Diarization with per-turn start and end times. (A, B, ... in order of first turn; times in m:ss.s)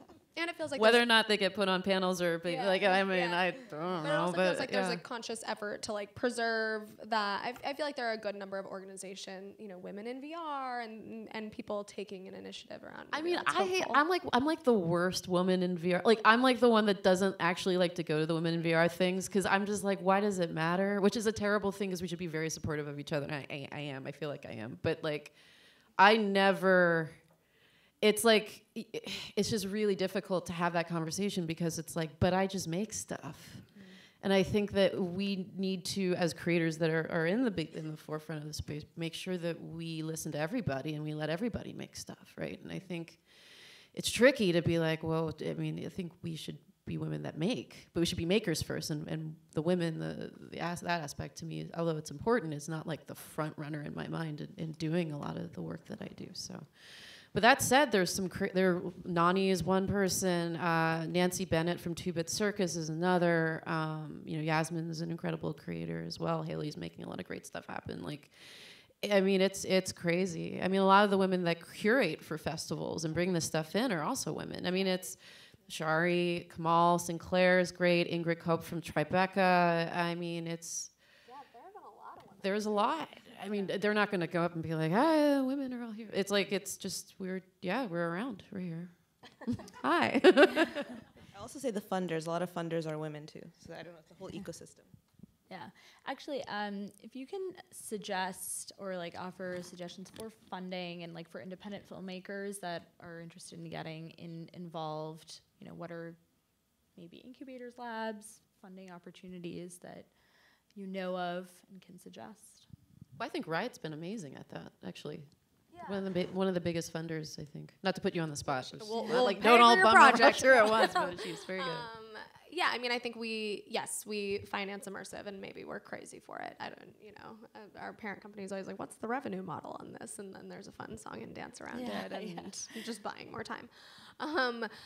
0:00.3-0:01.0 A
0:00.7-0:05.0 B
0:02.4-0:14.0 A
0:13.1-0:25.4 B
0:25.9-0:27.4 B
0:28.0-1:20.9 B
0:33.7-0:34.0 C
1:14.7-1:15.0 A
1:21.2-1:23.8 A
1:22.4-1:30.9 B
1:31.3-1:34.9 D
1:35.5-1:46.2 C
1:46.9-1:50.1 C
1:50.7-1:52.7 C
1:53.2-2:01.9 B
1:55.7-1:56.0 A
1:58.5-2:14.7 A
2:11.7-2:12.5 C